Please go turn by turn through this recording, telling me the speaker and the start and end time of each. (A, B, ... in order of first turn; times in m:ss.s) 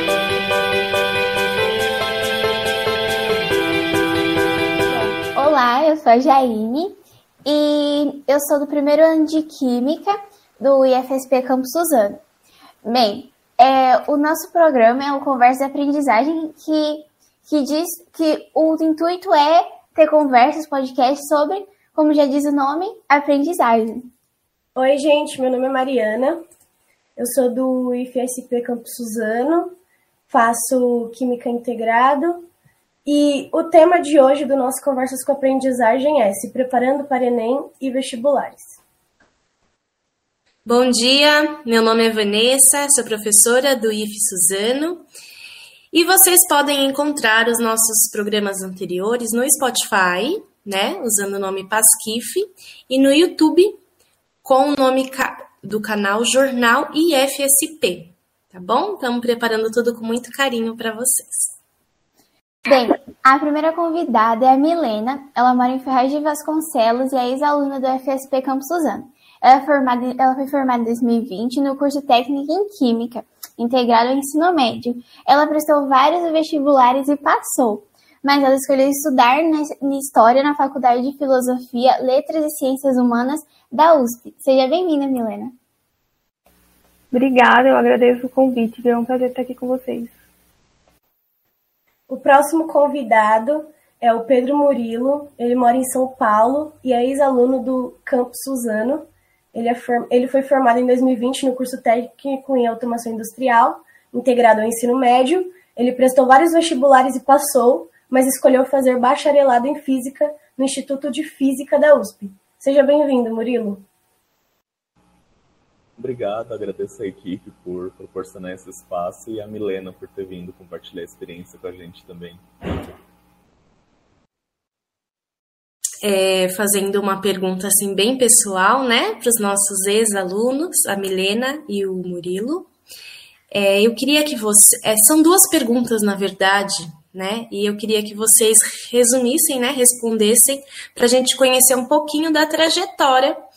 0:04.9-0:12.2 A
0:12.8-0:24.1 A
0:24.8-0:26.4 B
0:27.2-0:29.8 B
0:30.3-0:32.5 B
0:33.1-0:38.8 B
0:40.7-0:45.0 C
0:45.9-0:53.8 C
0:54.4-1:01.6 C
1:02.7-1:25.6 A
1:27.1-1:30.1 D
1:32.1-1:53.8 B
1:56.0-2:02.4 E
2:06.0-2:12.7 C
2:13.5-2:23.4 C